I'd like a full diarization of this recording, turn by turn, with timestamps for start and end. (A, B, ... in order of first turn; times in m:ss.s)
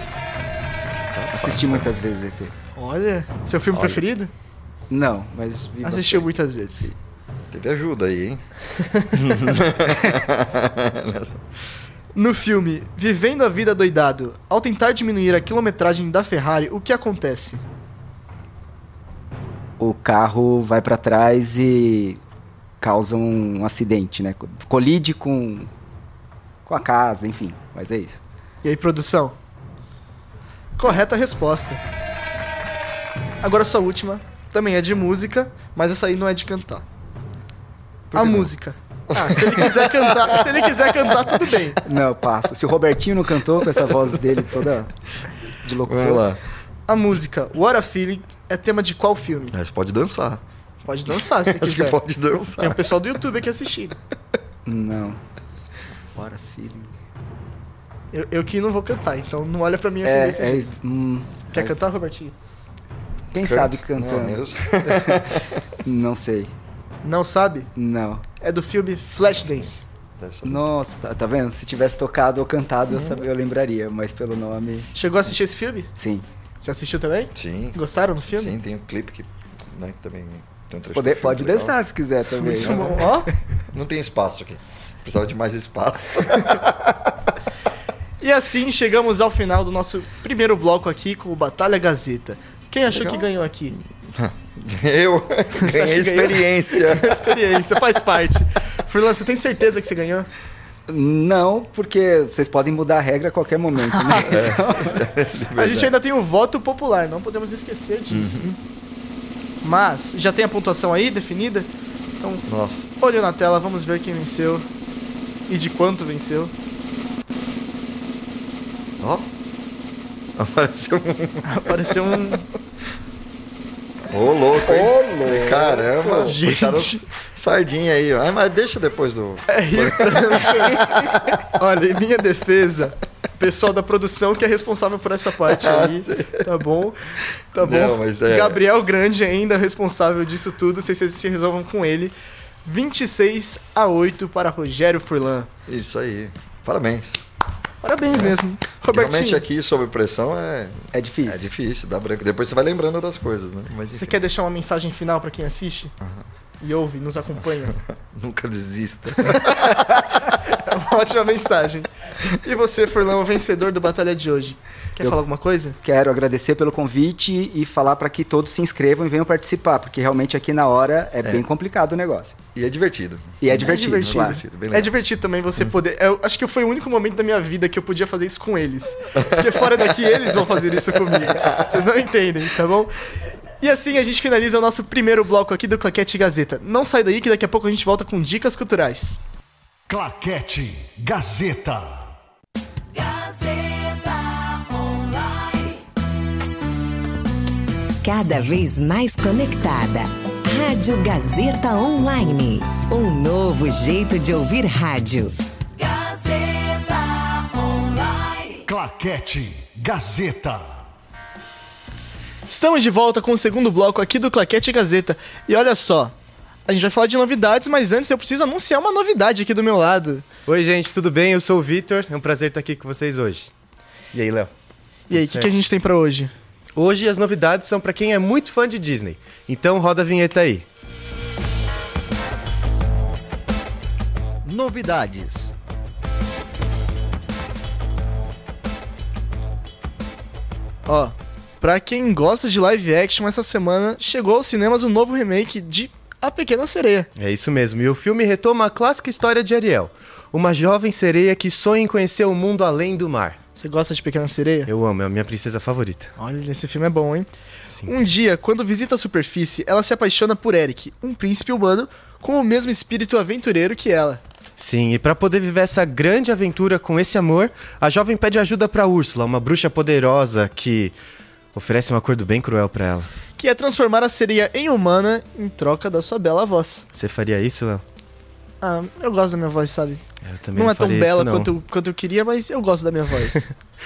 0:00.9-0:01.9 A
0:01.3-0:02.5 B
0:02.8-0:04.3 C
0:04.9-0:06.9 B
0:05.8-0:06.9 C
0:07.5-0:08.4 A
0:09.1-0:11.4 A
0:12.1-0:17.6 C
0:19.8-0:22.2 B
0:22.8-0:25.7 B
0:26.6-0:28.2 B
0:28.6-0:29.4 C
0:30.8-0:31.8 C
0:33.4-0:36.8 C
0:38.1-0:38.5 B
0:38.1-0:41.8 C
0:39.1-0:40.9 A
0:41.8-0:44.9 B
0:45.6-0:46.3 B
0:45.8-0:46.4 A
0:46.9-0:49.6 C
0:49.5-0:50.4 A
0:50.8-0:52.0 C
0:51.4-0:52.8 A
0:52.6-0:54.0 C
0:54.6-0:55.2 B
0:56.1-0:56.9 B
0:58.1-1:00.7 C
1:00.0-1:01.7 B
1:01.5-1:02.3 C
1:03.3-1:05.3 B
1:03.4-1:05.6 A
1:05.8-1:06.5 B
1:07.0-1:07.7 C
1:07.8-1:08.2 B
1:08.4-1:09.8 C
1:10.2-1:10.6 A
1:10.4-1:14.9 B
1:12.9-1:13.2 A
1:14.9-1:15.9 C
1:16.0-1:16.2 B
1:16.6-1:18.5 C
1:17.3-1:17.8 A
1:18.3-1:21.8 A
1:20.9-1:23.1 B
1:22.4-1:23.3 C
1:22.5-1:23.1 A
1:23.7-1:26.7 A
1:28.2-1:33.8 C
1:32.9-1:33.2 A
1:34.0-1:37.3 A
1:35.6-1:40.3 C
1:40.9-1:45.0 B
1:44.3-1:45.9 A
1:45.5-1:48.5 C
1:48.1-1:48.6 A
1:49.6-1:51.7 C
1:52.2-1:52.4 C
1:52.5-1:52.9 A
1:53.0-1:54.6 C
1:55.5-1:56.5 C
1:59.0-1:59.3 A
2:00.4-2:01.6 A
2:01.4-2:02.4 C
2:04.1-2:11.1 A
2:04.6-2:06.3 B
2:06.1-2:07.0 C
2:09.5-2:17.0 C
2:15.5-2:16.5 A
2:17.5-2:25.5 C
2:17.6-2:18.6 A
2:25.7-2:27.2 A
2:27.8-2:29.4 C
2:28.1-2:34.2 A
2:30.9-2:31.5 B
2:33.9-2:35.9 C
2:36.6-2:37.8 C
2:37.7-2:39.7 A
2:39.3-2:39.9 C
2:40.5-2:45.8 C
2:45.8-2:52.4 B
2:52.5-2:54.9 A
2:53.4-2:54.4 B
2:53.5-3:02.9 C
3:01.3-3:01.6 A
3:03.6-3:09.2 C
3:09.9-3:12.1 D
3:18.0-3:25.3 E
3:28.6-3:30.9 D
3:32.5-3:36.1 C
3:36.7-3:40.3 C
3:40.4-3:43.5 F
3:44.1-3:44.5 F
3:45.1-3:45.5 F
3:45.1-3:46.3 C
3:46.8-3:50.6 F
3:54.4-3:55.5 C
4:00.8-4:07.1 C
4:07.2-4:13.4 F
4:13.6-4:14.7 C
4:14.7-4:16.1 F
4:16.2-4:17.3 C
4:17.9-4:24.2 C
4:24.6-4:30.9 F
4:31.5-4:33.1 F
4:33.4-4:36.9 C
4:36.9-4:37.8 F
4:38.6-4:40.0 C
4:40.2-4:41.5 F
4:40.5-4:43.5 C